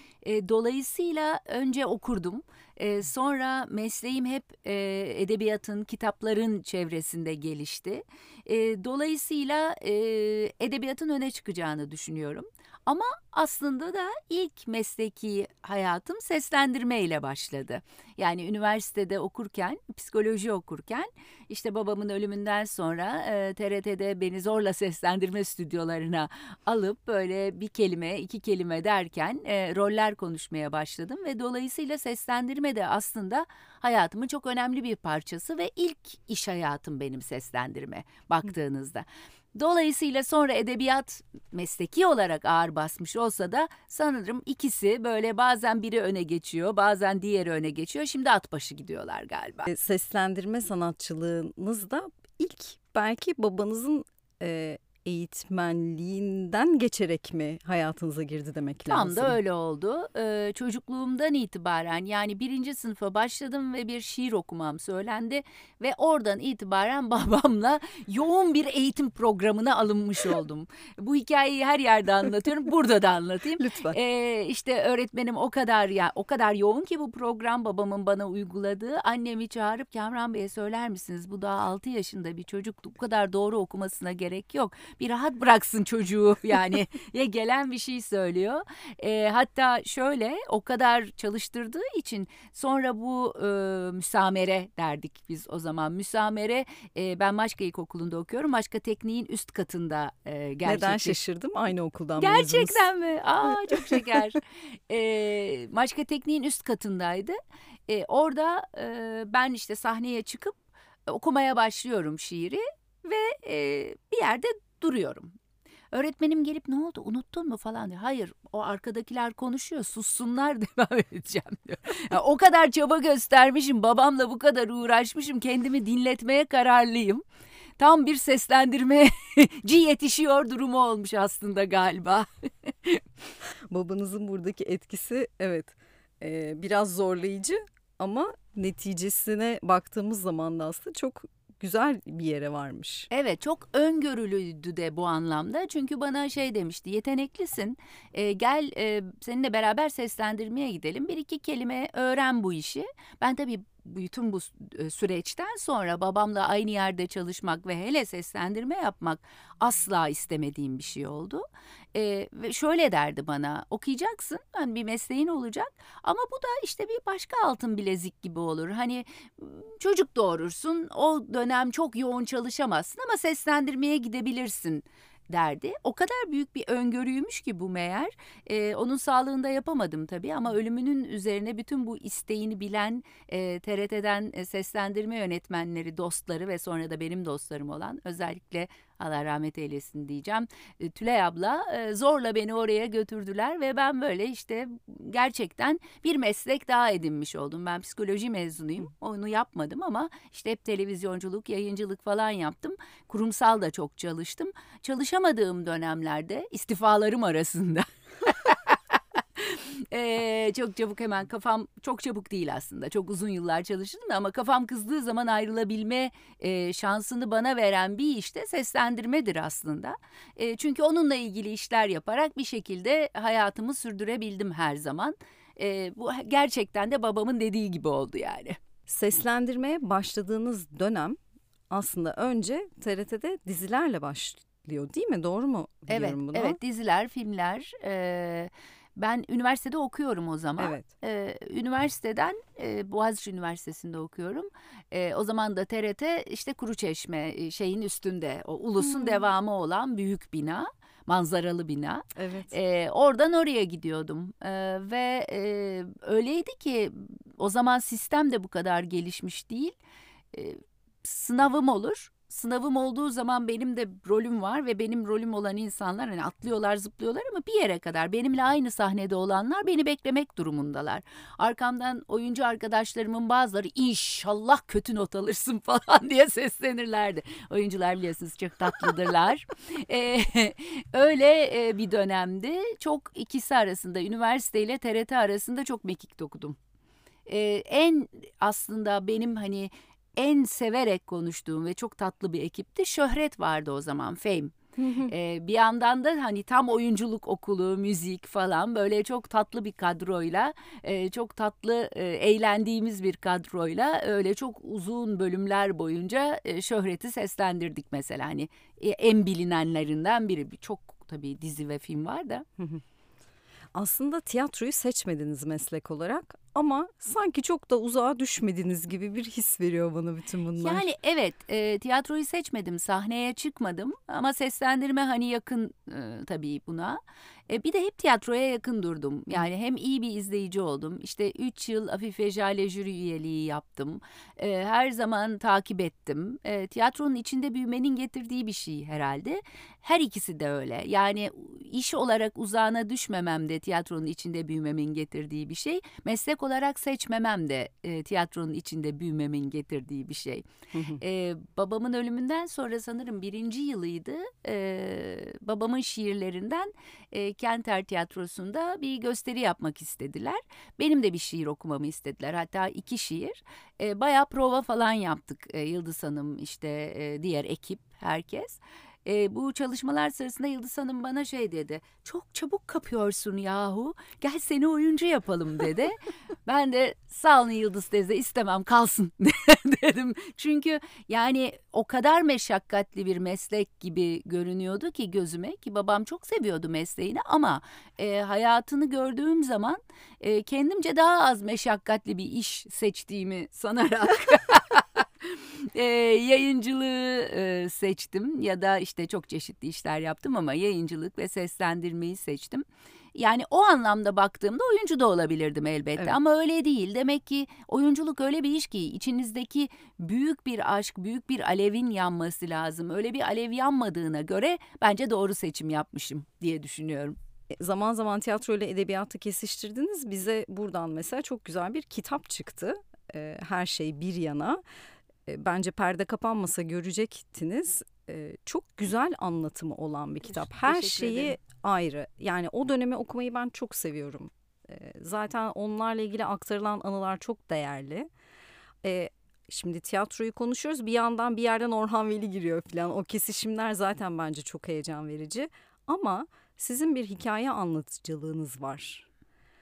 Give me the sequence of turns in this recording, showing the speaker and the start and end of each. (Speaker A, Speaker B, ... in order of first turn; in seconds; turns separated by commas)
Speaker A: 0.2-49.7, Speaker B: 49.7-59.4, Speaker A: 58.9-101.2, Speaker B: 73.6-74.0, Speaker B: 100.6-102.8, Speaker A: 102.2-107.4, Speaker A: 107.9-115.3, Speaker A: 115.9-127.2, Speaker A: 127.8-133.0, Speaker B: 133.7-143.1, Speaker A: 143.1-208.8, Speaker A: 209.4-228.6, Speaker B: 228.9-231.2, Speaker B: 231.7-236.6, Speaker A: 235.9-259.8, Speaker B: 240.6-240.9, Speaker B: 252.1-252.5, Speaker A: 260.3-286.6, Speaker A: 287.3-312.4, Speaker B: 294.8-295.1, Speaker B: 313.7-320.9, Speaker A: 320.6-327.0, Speaker A: 327.5-350.4, Speaker B: 350.7-351.0, Speaker A: 351.0-417.2, Speaker B: 417.5-424.6, Speaker B: 425.2-438.1, Speaker A: 430.3-431.3, Speaker B: 438.8-449.1